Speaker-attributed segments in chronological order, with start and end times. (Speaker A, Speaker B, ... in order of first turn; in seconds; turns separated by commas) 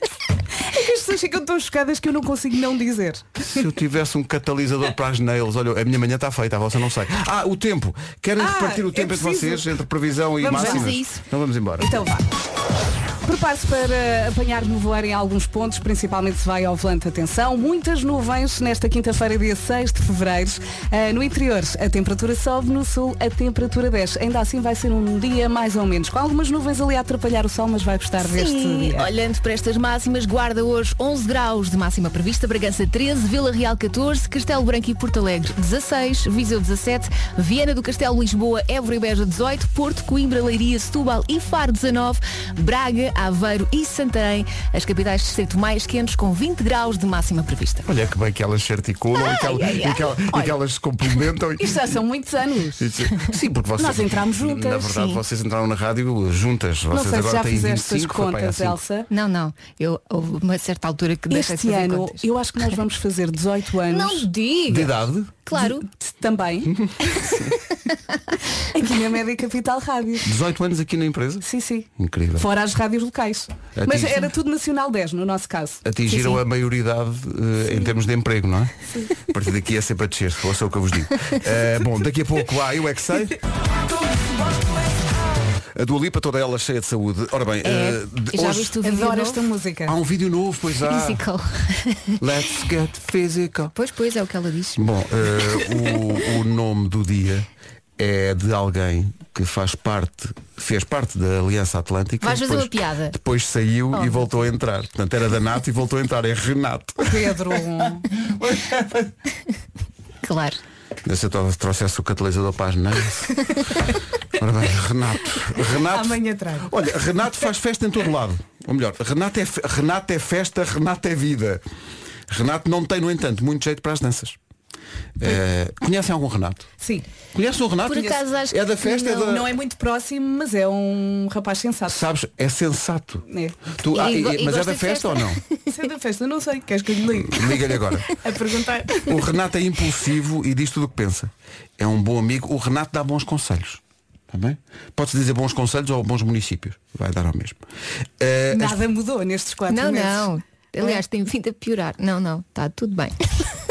Speaker A: 0.6-3.4, Speaker B: 3.4-12.0, Speaker A: 8.4-9.7, Speaker A: 10.4-11.0, Speaker C: 10.4-11.2, Speaker A: 11.8-12.2, Speaker A: 13.2-29.1, Speaker C: 28.2-47.9, Speaker B: 47.8-51.9, Speaker C: 49.1-50.5, Speaker A: 51.6-52.9, Speaker B: 52.8-58.8, Speaker A: 53.8-54.8, Speaker C: 54.8-55.2, Speaker A: 56.9-59.1, Speaker C: 59.1-62.2, Speaker A: 61.3-64.9, Speaker C: 63.9-64.9, Speaker B: 64.7-65.4, Speaker C: 65.5-65.8, Speaker A: 65.5-67.2, Speaker B: 66.7-67.0, Speaker A: 68.7-70.3, Speaker B: 70.2-72.5, Speaker A: 71.4-76.4, Speaker B: 73.8-74.2, Speaker B: 75.8-78.7, Speaker B: 79.3-83.3, Speaker B: 85.8-88.8, Speaker C: 87.6-89.5, Speaker A: 88.8-89.9, Speaker B: 89.9-91.2, Speaker C: 90.8-92.2, Speaker B: 92.2-93.7, Speaker C: 93.7-94.8, Speaker B: 94.8-107.3, Speaker C: 102.2-103.2, Speaker C: 103.9-104.5, Speaker A: 107.0-108.0, Speaker B: 108.4-109.0, Speaker C: 110.2-110.6, Speaker B: 111.0-113.5, Speaker B: 114.4-121.6, Speaker A: 115.6-116.7, Speaker B: 122.3-124.4, Speaker B: 125.2-126.7, Speaker A: 126.8-127.0, Speaker B: 127.3-129.5, Speaker C: 127.9-128.6, Speaker A: 128.8-132.0, Speaker B: 131.9-133.2, Speaker A: 133.2-133.6, Speaker B: 133.8-135.4, Speaker C: 133.9-135.6, Speaker A: 135.7-137.5, Speaker B: 137.1-138.1, Speaker A: 138.2-139.1, Speaker B: 139.1-147.6, Speaker B: 148.2-148.7, Speaker A: 148.5-151.0, Speaker C: 149.7-153.6